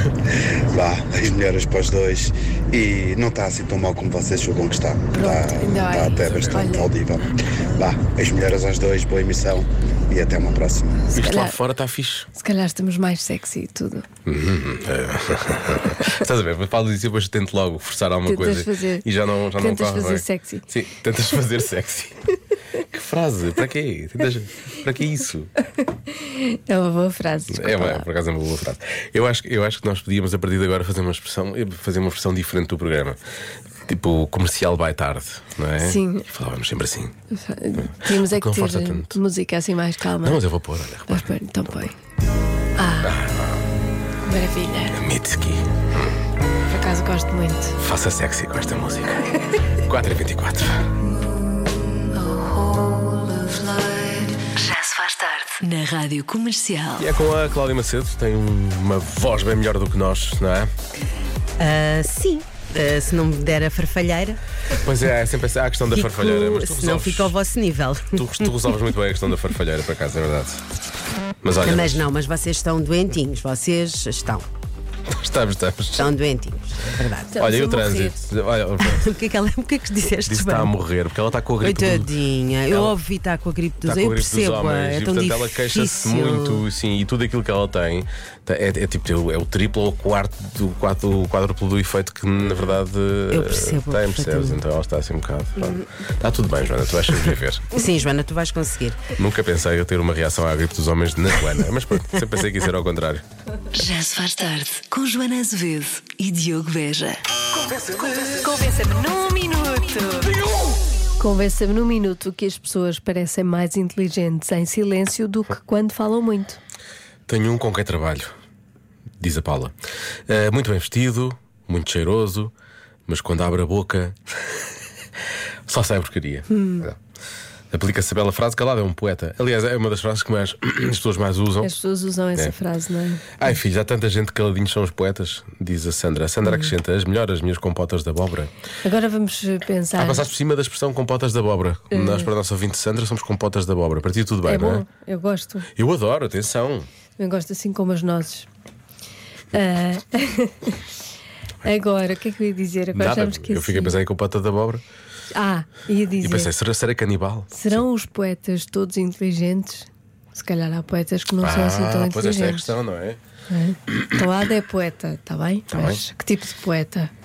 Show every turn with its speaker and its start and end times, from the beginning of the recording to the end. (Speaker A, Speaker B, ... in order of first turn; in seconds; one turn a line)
Speaker A: 0.6-11.0
Speaker B: 5.1-6.9
Speaker C: 6.1-6.7
Speaker B: 11.1-11.6
Speaker C: 11.1-12.3
Speaker B: 12.3-14.1
Speaker C: 14.2-22.2
Speaker B: 18.2-20.6
Speaker C: 22.8-25.5
Speaker B: 26.1-28.1
Speaker C: 27.5-33.2
Speaker C: 33.9-37.1
Speaker B: 35.8-36.3
Speaker B: 37.3-40.4
Speaker C: 37.8-39.2
Speaker C: 40.2-41.3
Speaker B: 41.1-42.0
Speaker B: 42.8-43.1
Speaker C: 43.0-43.6
Speaker B: 44.2-45.0
Speaker C: 44.9-46.2
Speaker B: 46.7-47.8
Speaker C: 47.8-50.9
Speaker D: 54.5-55.6
Speaker E: 55.6-57.0
Speaker C: 57.0-60.7
Speaker D: 61.6-64.4
Speaker C: 64.7-67.4
Speaker D: 65.9-68.7
Speaker C: 68.1-70.6
Speaker C: 71.4-72.1
Speaker D: 71.6-74.5
Speaker C: 75.1-76.1
Speaker D: 76.0-77.5
Speaker B: 77.3-78.2
Speaker C: 77.3-79.1
Speaker D: 78.8-80.7
Speaker C: 80.2-83.0
Speaker D: 81.6-86.6
Speaker C: 83.8-97.7
Speaker D: 93.3-94.6
Speaker D: 97.7-99.1
Speaker C: 99.1-103.2
Speaker E: 103.7-107.2
Speaker B: 108.0-110.3
Speaker B: 111.2-116.6
Speaker C: 117.3-118.3
Speaker C: 119.2-119.7
Speaker C: 120.3-122.5
Speaker C: 123.1-124.2
Speaker C: 125.7-127.0
Speaker B: 126.5-126.8
Speaker C: 127.7-131.7
Speaker B: 131.6-133.3
Speaker C: 133.4-138.5
Speaker B: 138.8-140.3
Speaker C: 140.0-144.8
Speaker B: 141.9-142.3
Speaker B: 144.4-145.7
Speaker C: 145.8-146.9
Speaker B: 147.2-148.5
Speaker B: 149.5-150.8
Speaker B: 151.6-154.0
Speaker C: 152.9-154.8
Speaker B: 155.3-156.5
Speaker C: 156.2-157.8
Speaker B: 157.5-162.7
Speaker C: 161.4-163.2
Speaker B: 163.5-167.1
Speaker C: 165.7-166.0